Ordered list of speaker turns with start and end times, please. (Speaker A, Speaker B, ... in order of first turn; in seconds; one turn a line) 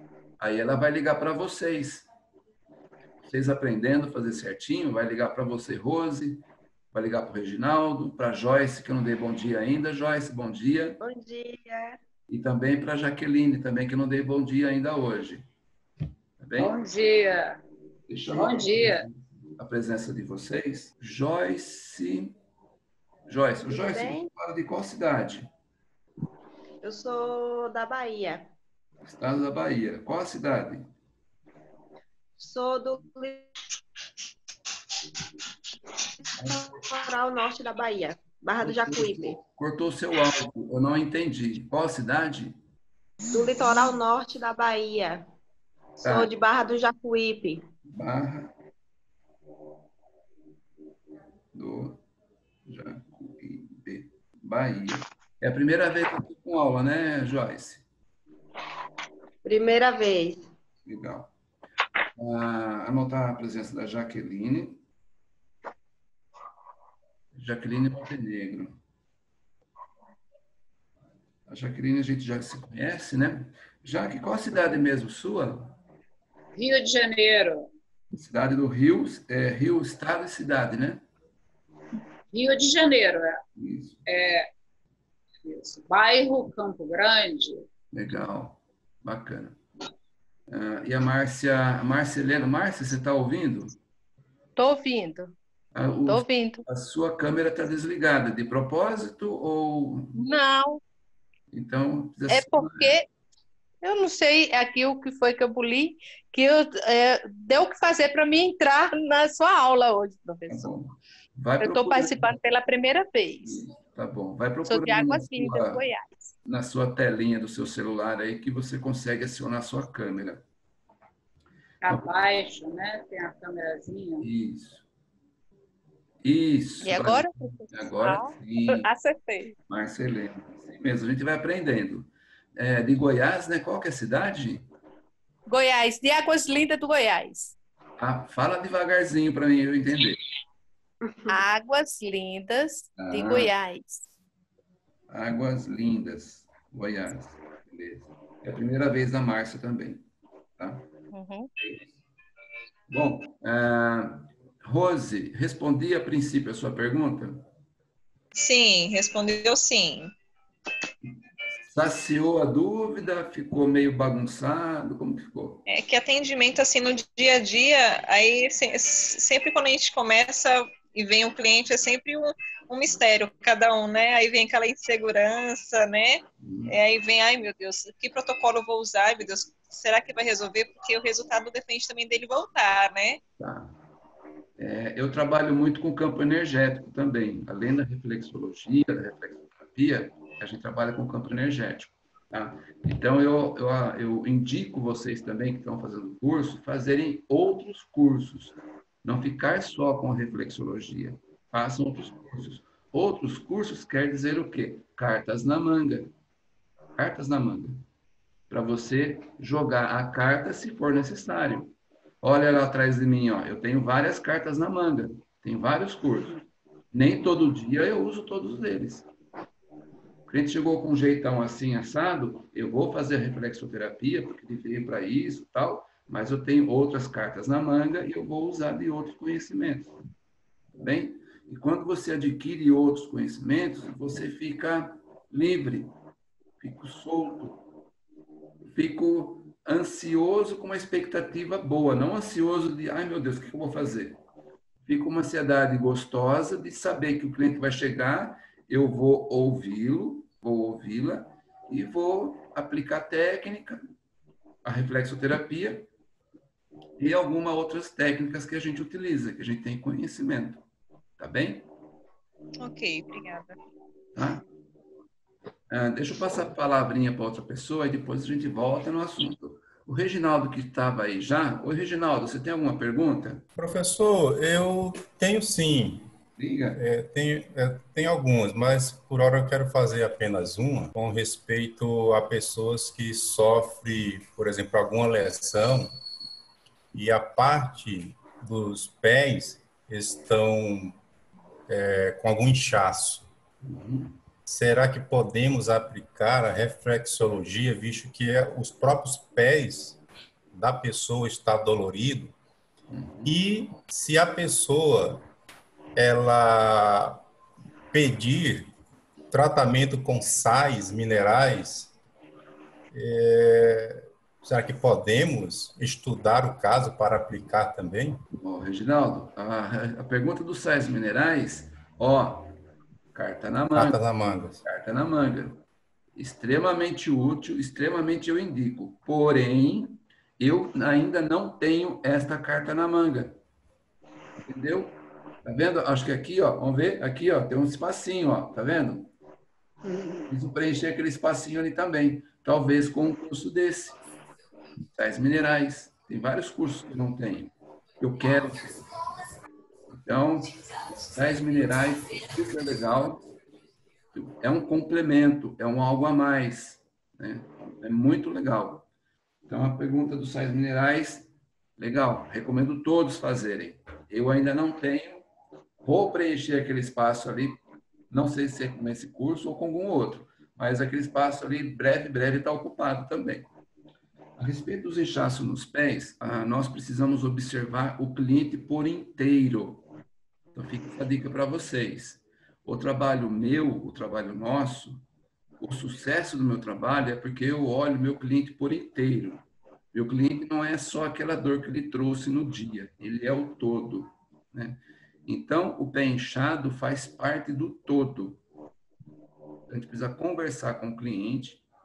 Speaker A: 0.4-2.1
Speaker A: 3.2-11.0
Speaker B: 11.0-12.0
Speaker A: 12.3-15.5
Speaker A: 16.4-16.7
Speaker C: 16.6-17.6
Speaker A: 18.1-22.4
Speaker C: 18.3-19.0
Speaker A: 23.3-25.5
Speaker B: 23.7-24.3
Speaker B: 26.8-28.5
Speaker A: 29.0-30.9
Speaker B: 32.4-33.5
Speaker A: 36.4-36.9
Speaker B: 36.5-39.4
Speaker A: 38.6-42.6
Speaker B: 43.3-45.2
Speaker B: 46.0-47.6
Speaker A: 46.0-46.3
Speaker A: 47.9-48.5
Speaker A: 51.5-52.0
Speaker A: 52.6-57.9
Speaker B: 59.4-60.4
Speaker A: 60.9-61.3
Speaker A: 62.2-64.8
Speaker A: 67.3-68.8
Speaker A: 71.5-75.8
Speaker C: 76.5-77.7
Speaker A: 78.1-81.0
Speaker C: 82.3-83.4
Speaker A: 83.5-84.0
Speaker C: 84.0-84.5
Speaker C: 85.4-87.7
Speaker A: 87.9-89.6
Speaker A: 90.5-93.7
Speaker D: 94.6-95.3
Speaker A: 95.7-100.2
Speaker D: 96.1-96.6
Speaker D: 100.1-100.8
Speaker A: 101.5-103.0
Speaker D: 102.3-103.0
Speaker D: 103.8-110.7
Speaker A: 110.5-112.3
Speaker D: 111.6-113.7
Speaker A: 113.4-115.8
Speaker D: 114.7-116.3
Speaker A: 116.5-120.4
Speaker C: 121.8-124.3
Speaker A: 124.2-124.8
Speaker A: 126.2-128.9
Speaker D: 126.8-129.6
Speaker A: 129.7-134.7
Speaker D: 135.5-137.5
Speaker A: 138.0-140.2
Speaker D: 141.3-144.1
Speaker A: 143.0-143.5
Speaker A: 145.1-150.0
Speaker A: 150.6-150.8
Speaker D: 151.1-151.5
Speaker A: 152.9-157.4
Speaker E: 158.3-160.1
Speaker A: 161.7-165.6
Speaker E: 165.7-183.2
Speaker A: 176.4-176.8
Speaker A: 183.4-183.7
Speaker A: 184.6-206.1
Speaker A: 207.0-207.8
Speaker A: 208.5-216.4
Speaker A: 216.9-219.1
Speaker A: 220.3-229.9
Speaker A: 230.8-235.9
Speaker A: 236.6-237.6
Speaker A: 238.7-244.2
Speaker A: 244.9-253.8
Speaker A: 254.6-255.9
Speaker A: 257.0-260.6
Speaker A: 261.2-261.7
Speaker E: 262.6-263.6
Speaker A: 264.1-264.4
Speaker A: 265.7-273.5
Speaker F: 273.6-276.1
Speaker A: 276.4-276.8
Speaker F: 276.8-285.9
Speaker F: 286.9-291.0
Speaker F: 291.7-293.2
Speaker A: 293.6-294.2
Speaker F: 294.5-300.0
Speaker F: 300.5-302.4
Speaker A: 302.9-303.3
Speaker F: 303.2-305.2
Speaker F: 306.0-307.2
Speaker F: 307.9-308.7
Speaker F: 309.3-311.9
Speaker F: 312.9-318.2
Speaker A: 318.4-322.5
Speaker A: 323.1-324.0
Speaker F: 323.8-324.6
Speaker A: 324.6-325.6
Speaker A: 326.1-333.4
Speaker A: 334.4-339.1
Speaker B: 339.9-340.2
Speaker A: 340.3-344.0
Speaker A: 344.9-348.9
Speaker A: 350.0-353.2
Speaker A: 354.1-358.9
Speaker A: 359.5-365.2
Speaker A: 365.8-373.5
Speaker A: 374.4-379.9
Speaker A: 380.6-385.0
Speaker A: 385.6-398.4
Speaker A: 399.7-401.6